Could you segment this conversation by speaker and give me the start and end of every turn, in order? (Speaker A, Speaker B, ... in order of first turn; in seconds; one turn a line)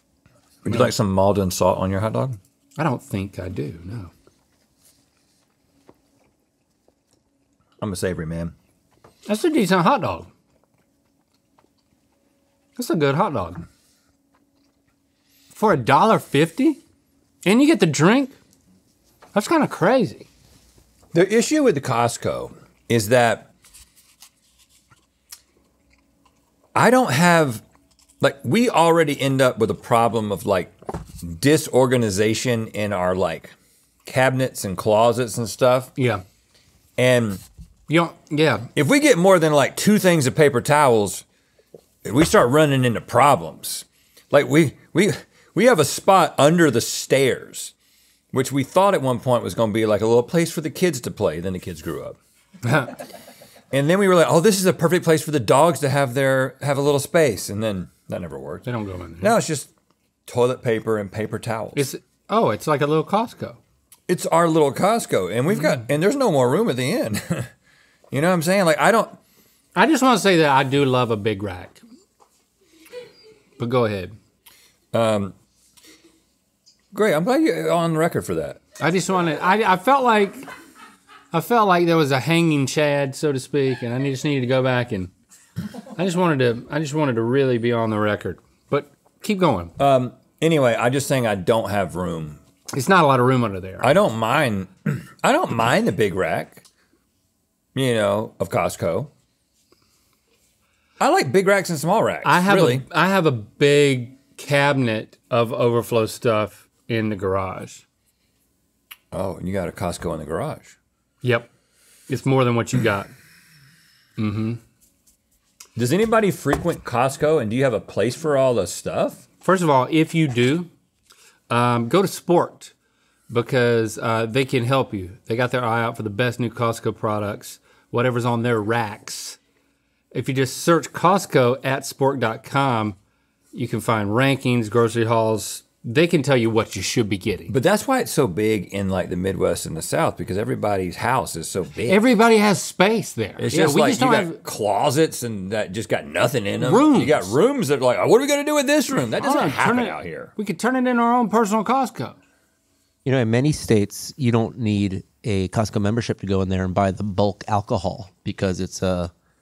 Speaker A: 0.6-2.4
Speaker B: 0.6-0.9
Speaker B: 2.8-4.1
Speaker A: 7.8-8.5
Speaker B: 9.2-10.3
Speaker B: 12.8-13.6
Speaker B: 15.5-16.8
Speaker B: 17.4-18.4
Speaker B: 19.3-20.3
Speaker A: 21.1-23.5
Speaker A: 26.7-27.6
Speaker A: 28.2-33.5
Speaker A: 34.0-35.9
Speaker B: 36.0-36.2
Speaker A: 37.0-37.4
Speaker B: 37.9-38.7
Speaker A: 38.7-41.2
Speaker A: 42.0-47.7
Speaker A: 48.3-52.2
Speaker B: 52.6-53.0
Speaker A: 53.7-58.7
Speaker B: 58.6-59.3
Speaker A: 59.2-59.7
Speaker A: 60.3-61.9
Speaker B: 61.7-63.6
Speaker A: 64.1-67.5
Speaker A: 68.1-69.2
Speaker B: 69.8-71.8
Speaker B: 73.6-74.1
Speaker A: 74.9-75.3
Speaker A: 76.9-78.6
Speaker B: 78.8-80.4
Speaker B: 81.3-85.1
Speaker B: 85.9-89.7
Speaker A: 89.8-92.4
Speaker B: 92.7-93.9
Speaker A: 93.8-96.6
Speaker A: 97.7-99.1
Speaker A: 101.0-102.8
Speaker B: 102.2-107.8
Speaker A: 109.1-110.7
Speaker B: 111.2-111.5
Speaker B: 112.1-113.1
Speaker B: 114.2-114.6
Speaker A: 115.8-119.2
Speaker B: 119.4-120.7
Speaker B: 121.5-122.7
Speaker B: 123.3-129.4
Speaker B: 130.1-133.0
Speaker B: 133.5-137.5
Speaker A: 137.5-142.0
Speaker B: 141.9-144.4
Speaker A: 143.4-150.3
Speaker B: 146.6-147.3
Speaker B: 149.2-152.2
Speaker C: 153.0-159.1